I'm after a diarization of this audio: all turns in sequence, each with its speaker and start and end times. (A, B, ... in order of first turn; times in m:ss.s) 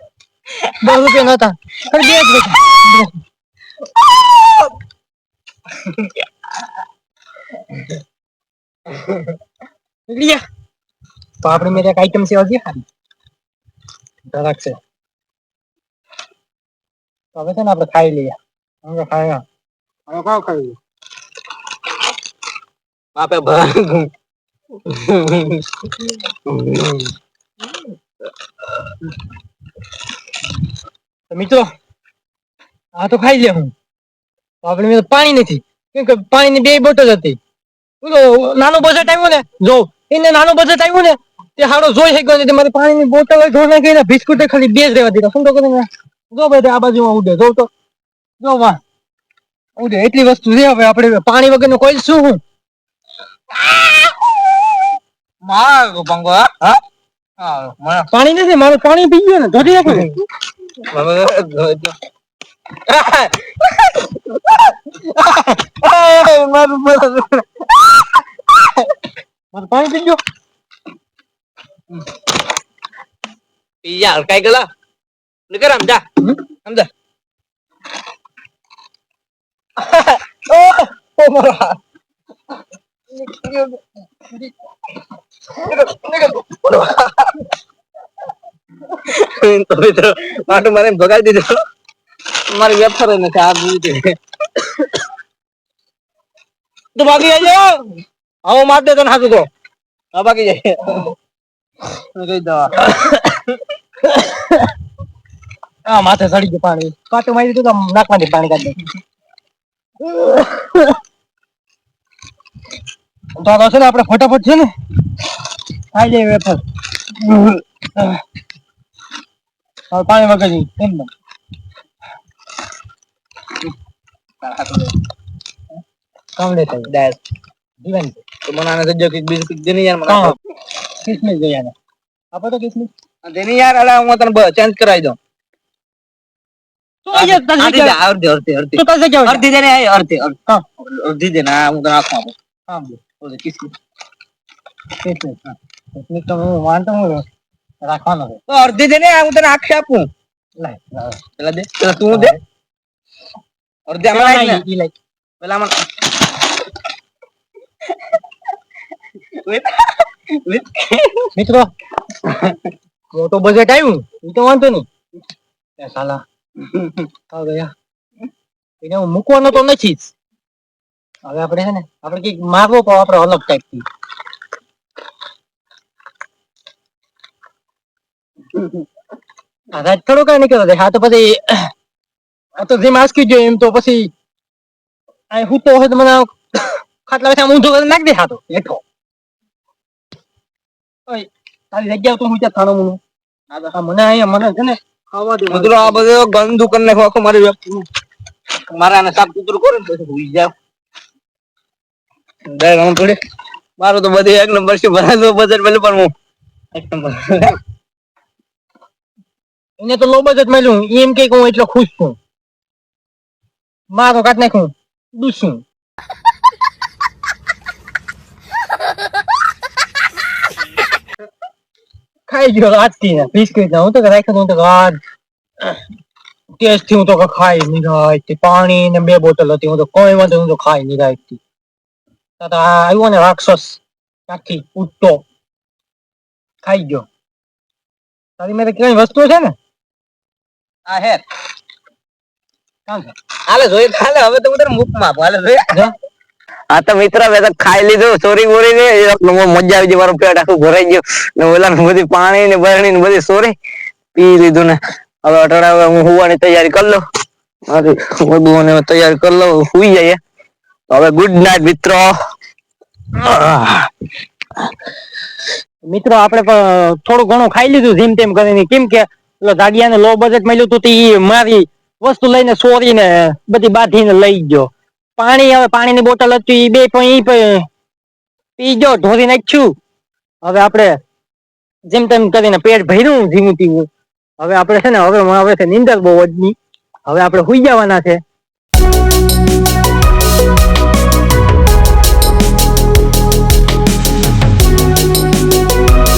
0:00.8-0:03.1 A
0:10.1-0:10.4 A
0:11.4-0:12.8 A
0:14.3-0:14.8 A
0:17.4-0:19.4 A
0:20.1-0:20.8 A
0:23.2-0:24.1 B
0:26.5-0:27.0 C
0:31.3-0:31.7 A
0:33.0-0:33.7 A
0:34.6-0:37.4 A
0:38.0-0:47.7 A
0:48.4-0:48.8 A
0:49.8-0:52.4 A
0:55.4-0:56.7 B
0:57.4-0:58.0 B
0:58.1-1:00.1 A
1:00.9-1:01.9 C
1:02.9-1:03.5 B
1:05.8-1:06.4 C
1:06.2-1:06.9 B
1:06.9-1:07.2 C
1:09.5-1:10.2 A
1:13.8-1:14.7 B
1:15.5-1:16.0 B
1:19.9-1:21.8 B
1:23.2-1:23.8 B
1:25.7-1:27.0 B
1:29.1-1:31.6 B
1:32.5-1:34.2 B
1:37.0-1:37.8 B
1:38.4-1:39.5 B
1:40.1-1:41.1 B
1:42.2-1:42.8 B
1:45.9-1:48.8 A
1:50.1-1:50.8 A
1:53.4-1:54.7 A
1:55.9-1:56.6 A
1:59.9-2:01.1 A
2:04.4-2:04.9 B
2:06.4-2:06.9 A
2:06.9-2:07.2 B
2:07.8-2:08.2 A
2:08.5-2:10.3 B
2:10.1-2:10.4 A
2:11.0-2:11.7 A
2:12.3-2:12.9 A
2:13.2-2:15.2 B
2:17.1-2:18.0 A
2:17.1-2:22.3 B
2:18.8-2:19.4 A
2:22.7-2:23.0 A
2:23.2-2:23.7 B
2:25.0-2:25.4 A
2:26.0-2:27.2 A
2:27.8-2:28.4 A
2:28.5-2:30.1 B
2:30.6-2:31.2 A
2:31.4-2:32.4 B
2:32.1-2:32.4 A
2:33.9-2:34.6 B
2:34.1-2:34.9 A
2:35.4-2:35.7 B
2:39.4-2:41.3 B
2:41.4-2:41.7 A
2:43.1-2:44.9 A
2:45.8-2:46.2 A
2:47.3-2:47.7 A
2:48.8-2:50.1 A
2:51.2-2:53.8 A
2:59.7-3:01.7 A
3:02.6-3:04.1 A
3:05.3-3:08.8 A
3:11.1-3:13.0 A
3:13.7-3:16.0 A
3:15.6-3:17.6 B
3:15.6-3:16.0 C
3:18.7-3:20.5 B
3:22.6-3:23.2 B
3:23.8-3:24.2 B
3:23.8-3:26.1 C
3:26.8-3:27.2 B
3:29.8-3:32.2 A
3:33.9-3:35.6 A
3:42.3-3:45.0 A
3:46.6-3:51.4 A
3:52.4-3:55.2 A
3:56.6-3:57.1 A
3:58.4-3:59.6 A
4:00.9-4:01.2 B
4:02.9-4:03.1 A
4:03.5-4:05.6 B
4:06.7-4:13.6 C
4:14.2-4:17.0 C
4:17.7-4:20.2 C
4:20.9-4:22.1 C
4:23.1-4:23.9 C
4:25.9-4:37.7 A
4:38.6-4:39.7 A
4:40.4-4:41.0 A
4:41.9-4:43.9 A
4:44.4-4:48.2 A